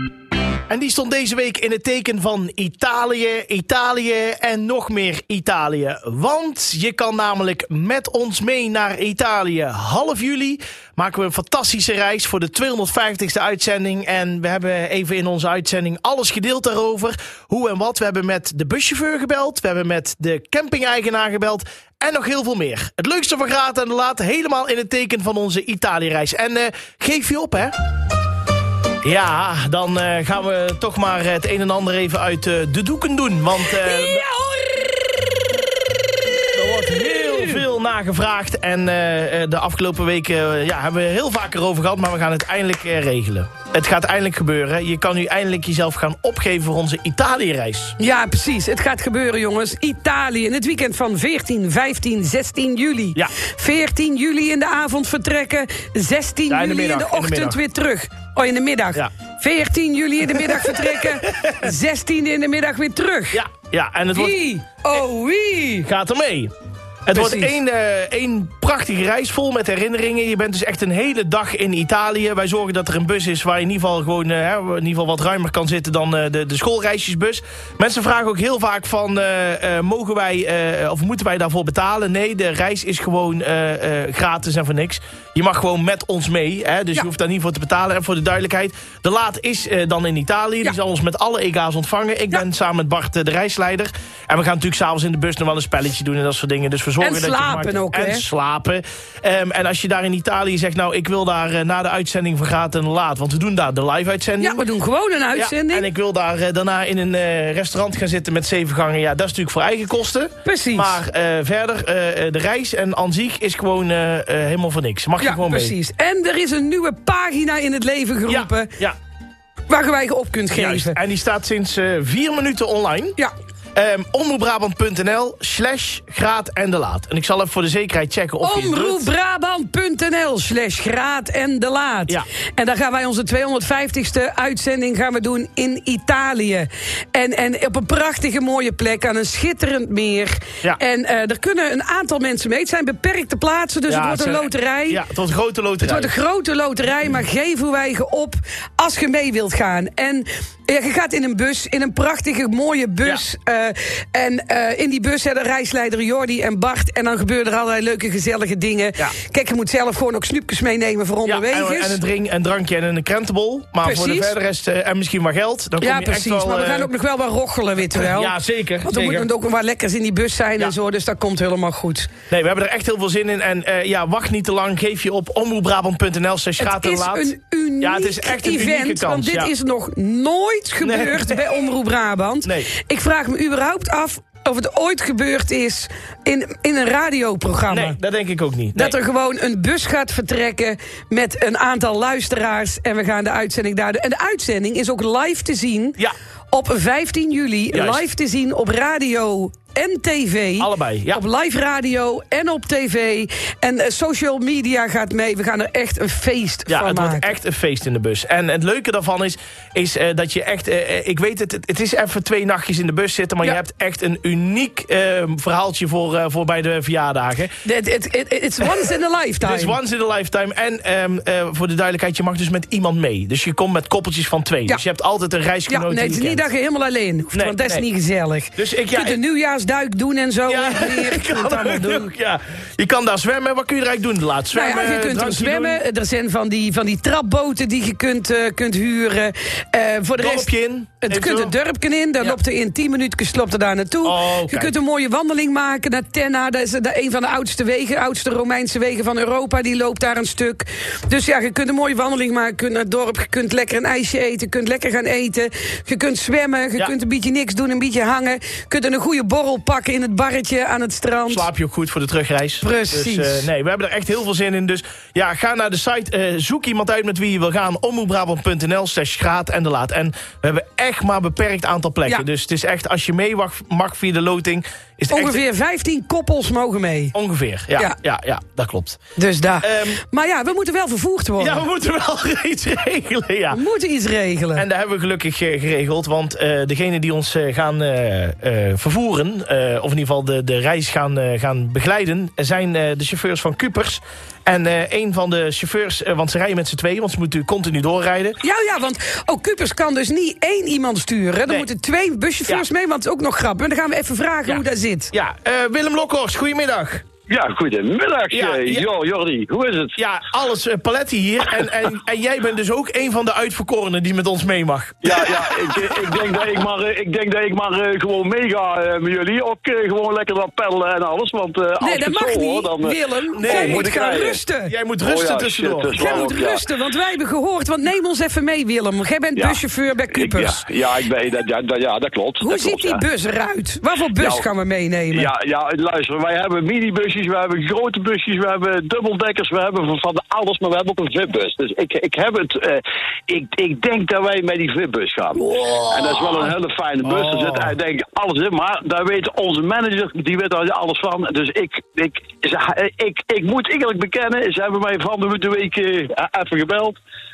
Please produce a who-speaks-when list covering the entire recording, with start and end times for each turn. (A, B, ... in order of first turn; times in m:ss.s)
0:00.7-0:27.7 A
0:29.0-0:34.3 A
0:33.7-0:35.2 B
0:36.6-0:37.6 B
0:36.8-0:48.0 A
0:48.0-1:03.4 B
0:56.5-0:57.6 A
1:00.4-1:01.6 A
1:03.3-1:04.4 A
1:04.2-1:05.9 B
1:05.8-1:06.5 A
1:07.0-1:44.7 A
1:07.1-1:07.6 B
1:37.0-1:38.2 B
1:44.4-1:45.9 B
1:45.3-1:55.8 A
1:50.4-1:51.0 B
1:55.2-1:58.7 B
1:58.3-1:59.0 A
1:59.7-2:01.0 B
2:00.5-2:03.2 A
2:03.8-2:09.1 A
2:08.4-2:25.0 B
2:23.9-2:26.2 A
2:25.8-2:42.0 B
2:41.3-2:46.9 A
2:43.8-2:44.4 B
2:45.8-2:52.1 B
2:47.9-2:49.3 A
2:52.3-2:59.5 A
2:56.6-3:08.0 B
3:00.8-3:01.6 A
3:02.4-3:02.7 A
3:07.7-3:09.0 A
3:08.7-3:16.0 B
3:16.5-3:27.3 B
3:17.7-3:18.0 A
3:20.6-3:21.2 A
3:26.7-3:37.5 A
3:37.6-3:39.8 B
3:38.6-3:46.5 A
3:45.7-3:52.1 B
3:47.3-3:47.9 A
3:48.5-3:49.2 A
3:50.5-3:55.8 A
3:54.5-4:21.5 B
4:00.2-4:01.5 A
4:04.0-4:04.7 A
4:21.3-4:35.4 A
4:22.6-4:23.5 B
4:35.1-4:37.2 B
4:37.1-4:39.0 A
4:39.2-4:41.6 B
4:39.6-4:40.0 A
4:41.4-4:43.6 A
4:43.5-4:44.7 B
4:44.6-4:58.4 A
4:58.4-5:05.1 B
5:04.5-5:07.1 A
5:07.3-5:10.0 C
5:08.3-5:08.9 A
5:10.0-5:15.8 A
5:15.0-5:24.4 C
5:21.8-5:24.7 B
5:23.4-5:23.9 A
5:24.6-5:26.2 A
5:25.0-5:26.7 C
5:26.0-5:30.6 B
5:29.4-5:29.6 C
5:30.1-5:33.0 C
5:32.4-5:35.3 B
5:34.2-5:34.5 C
5:35.1-5:57.0 C
5:45.4-5:46.4 B
5:47.0-5:47.8 A